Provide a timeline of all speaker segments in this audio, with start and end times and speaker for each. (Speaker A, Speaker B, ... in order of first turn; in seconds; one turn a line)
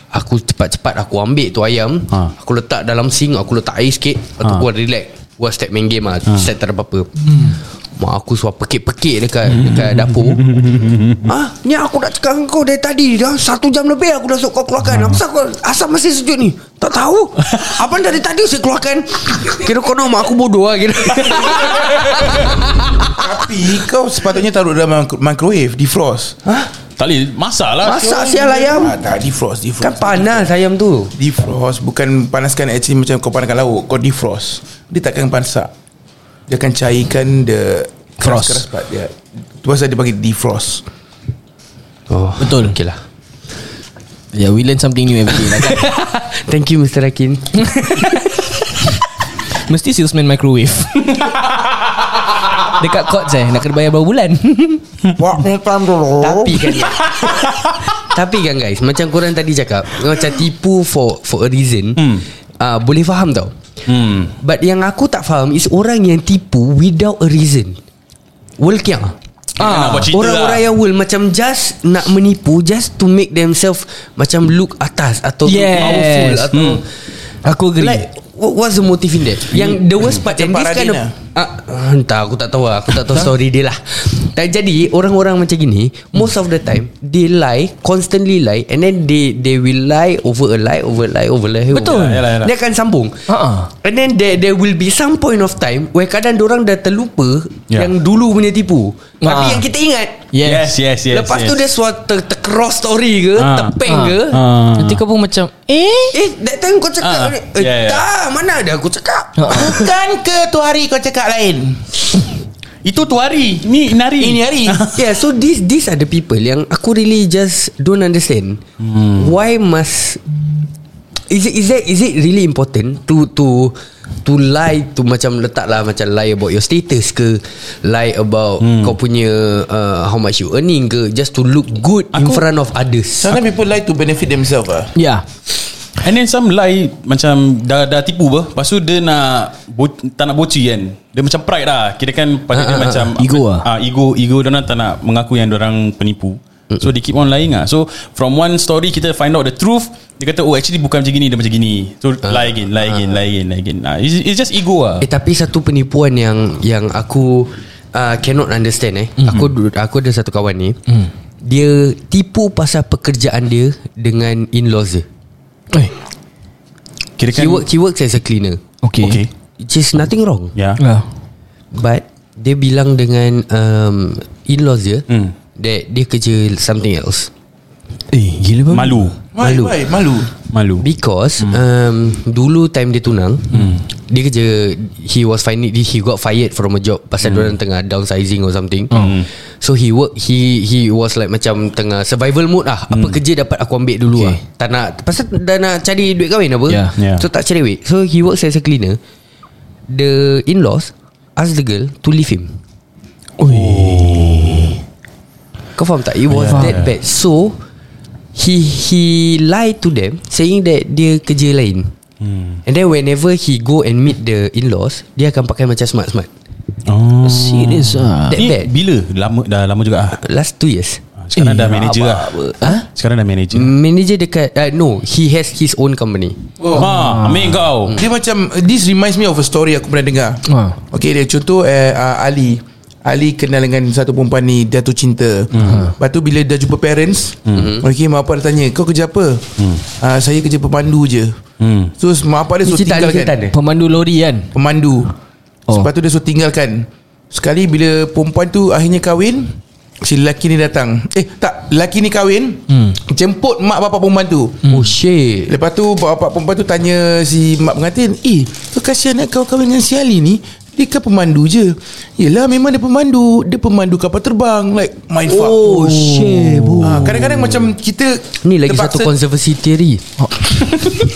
Speaker A: 0.1-10.4
Speaker B: 9.5-11.3
Speaker A: 11.2-23.3
Speaker B: 14.9-15.2
Speaker B: 21.6-22.5
Speaker C: 23.1-26.4
Speaker B: 27.0-28.1
Speaker A: 27.8-29.0
Speaker C: 27.9-30.5
Speaker A: 29.8-31.1
Speaker C: 31.1-35.7
Speaker C: 36.5-40.8
Speaker D: 38.2-38.6
Speaker A: 42.1-43.0
Speaker D: 42.4-42.8
Speaker D: 44.3-46.0
Speaker A: 45.5-48.2
Speaker D: 47.6-48.6
Speaker D: 49.7-51.5
Speaker D: 52.6-54.8
Speaker C: 55.2-56.7
Speaker A: 56.2-62.1
Speaker B: 57.4-57.7
Speaker B: 62.0-62.2
Speaker A: 62.6-63.5
Speaker B: 63.9-64.3
Speaker A: 64.4-67.8
Speaker A: 68.6-69.2
Speaker B: 69.6-70.7
Speaker D: 69.6-70.1
Speaker A: 70.1-76.9
Speaker D: 75.5-76.5
Speaker B: 76.5-76.8
Speaker D: 77.4-78.1
Speaker A: 77.8-93.2
Speaker C: 79.6-81.1
Speaker D: 91.7-92.3
Speaker B: 91.8-92.5
Speaker D: 93.3-93.7
Speaker A: 93.8-100.3
Speaker D: 99.2-99.7
Speaker D: 100.3-100.7
Speaker B: 100.4-101.6
Speaker A: 101.1-104.4
Speaker B: 103.4-105.0
Speaker D: 103.8-104.2
Speaker D: 104.8-106.2
Speaker A: 106.1-109.8
Speaker B: 107.0-108.0
Speaker D: 109.4-109.8
Speaker C: 109.5-112.0
Speaker B: 112.8-115.0
Speaker C: 114.2-114.9
Speaker A: 114.9-118.6
Speaker B: 118.8-119.3
Speaker A: 119.2-120.2
Speaker A: 121.3-133.4
Speaker B: 128.6-128.9
Speaker B: 132.1-132.4
Speaker C: 133.2-134.9
Speaker D: 134.9-135.3
Speaker B: 136.0-155.1
Speaker A: 142.5-143.1
Speaker D: 143.2-143.7
Speaker A: 152.3-153.2
Speaker A: 155.0-160.8
Speaker A: 161.4-165.1
Speaker B: 167.2-167.7
Speaker A: 167.3-168.6
Speaker D: 168.8-169.2
Speaker B: 169.0-169.3
Speaker A: 169.6-170.5
Speaker B: 170.6-170.8
Speaker D: 170.8-171.1
Speaker A: 171.7-175.1
Speaker B: 175.1-175.3
Speaker A: 175.6-177.3
Speaker D: 178.1-179.1
Speaker B: 178.7-179.2
Speaker C: 179.3-180.3
Speaker A: 179.4-179.8
Speaker B: 180.5-180.9
Speaker A: 180.8-189.1
Speaker B: 183.5-183.8
Speaker B: 187.2-187.5
Speaker D: 188.9-189.2
Speaker B: 188.9-189.3
Speaker A: 189.6-199.0
Speaker B: 192.9-193.2
Speaker D: 196.7-196.9
Speaker B: 197.0-197.3
Speaker A: 199.9-202.6
Speaker D: 203.4-204.8
Speaker B: 203.4-204.7
Speaker A: 205.8-207.6
Speaker D: 206.3-206.8
Speaker B: 206.4-206.9
Speaker A: 208.3-211.9
Speaker B: 212.2-212.6
Speaker A: 212.7-216.3
Speaker B: 216.9-220.2
Speaker D: 217.2-218.5
Speaker A: 218.3-218.7
Speaker A: 220.1-221.0
Speaker B: 221.2-223.8
Speaker D: 221.3-221.8
Speaker A: 221.6-222.8
Speaker A: 223.5-226.5
Speaker B: 226.7-228.0
Speaker D: 226.8-227.7
Speaker C: 227.9-241.4
Speaker D: 230.5-230.8
Speaker B: 235.6-235.9
Speaker D: 235.6-235.9
Speaker B: 237.5-237.8
Speaker A: 237.5-237.8
Speaker B: 241.6-241.9
Speaker C: 242.0-243.3
Speaker A: 242.6-243.6
Speaker D: 243.5-244.5
Speaker C: 244.5-245.1
Speaker C: 245.7-254.7
Speaker D: 252.7-253.0
Speaker D: 254.7-254.9
Speaker A: 254.7-255.6
Speaker C: 255.5-265.7
Speaker A: 265.3-267.4
Speaker D: 265.6-267.2
Speaker C: 266.8-269.1
Speaker A: 268.4-270.0
Speaker D: 270.2-270.7